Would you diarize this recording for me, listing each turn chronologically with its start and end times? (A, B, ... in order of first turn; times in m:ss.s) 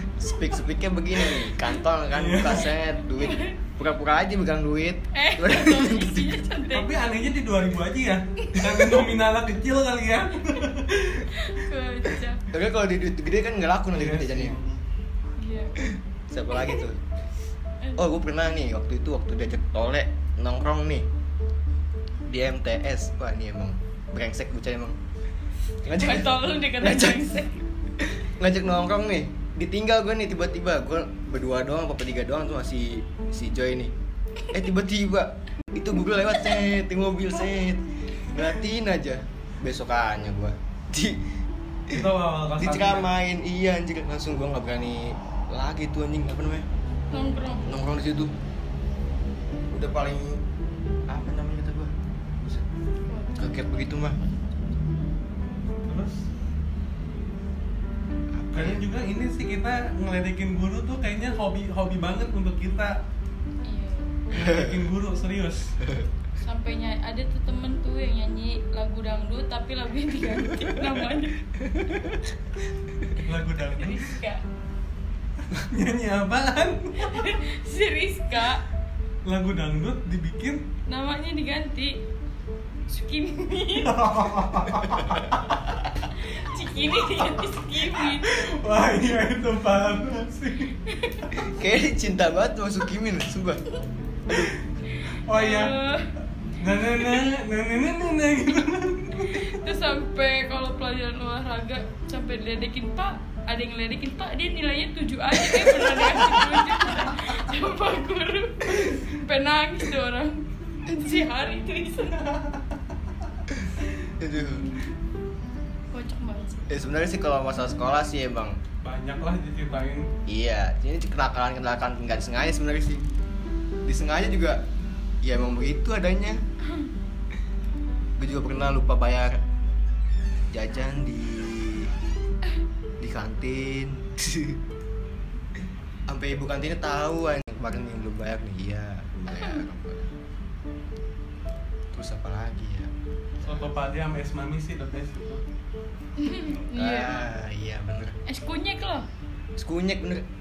0:00.2-0:06.4 A
0:02.1-0:02.7 B
0:03.2-0:03.6 C
0:05.1-0:06.9 C
0:06.7-0:11.3 B
0:11.3-0:12.4 C
0:12.5-0:14.5 A
0:13.9-0:14.8 B
0:15.4-0:15.8 C
0:16.3-0:17.0 A
0:17.8-0:18.1 C
0:18.0-0:21.1 A
0:22.2-0:25.0 A
0:25.8-0:27.4 A
0:25.8-0:27.6 C
0:28.2-0:33.9 A
0:34.5-0:41.2 A
0:41.9-0:43.1 B
0:42.6-0:46.6 A
0:47.1-0:47.8 C
0:47.6-0:48.3 A
0:49.7-0:50.4 A
0:51.1-0:52.6 A
0:53.0-0:54.8 C
0:53.4-0:54.2 A
0:55.8-0:56.2 B
0:58.3-0:58.8 A
0:58.5-1:03.0 B
1:03.6-1:04.5 C
1:04.3-1:05.8 B
1:04.4-1:04.8 A
1:06.4-1:11.4 C
1:11.6-1:12.2 A
1:13.2-1:14.1 B
1:13.6-1:14.4 C
1:15.5-1:17.2 B
1:17.0-1:18.6 C
1:19.2-1:20.6 B
1:20.9-1:22.0 C
1:22.9-1:24.0 C
1:23.8-1:25.6 B
1:26.2-1:28.4 C
1:27.8-1:30.7 B
1:30.8-1:31.4 C
1:31.4-1:33.6 A
1:34.2-1:34.5 A
1:34.9-1:36.1 C
1:35.2-1:35.7 B
1:36.6-1:39.5 B
1:36.8-1:37.2 C
1:39.2-1:52.5 C
1:45.4-1:46.4 A
1:54.2-1:54.7 A
1:55.9-1:56.7 C
1:56.7-1:58.6 A
1:58.8-2:00.1 B
2:00.3-2:03.1 A
2:03.8-2:04.6 A
2:05.2-2:06.4 A
2:08.2-2:09.4 A
2:10.5-2:11.9 A
2:13.0-2:14.6 A
2:16.1-2:20.1 A
2:19.3-2:19.6 C
2:21.9-2:23.7 A
2:23.4-2:25.4 B
2:26.2-2:27.2 C
2:26.7-2:28.1 A
2:28.2-2:29.1 C
2:29.6-2:30.2 A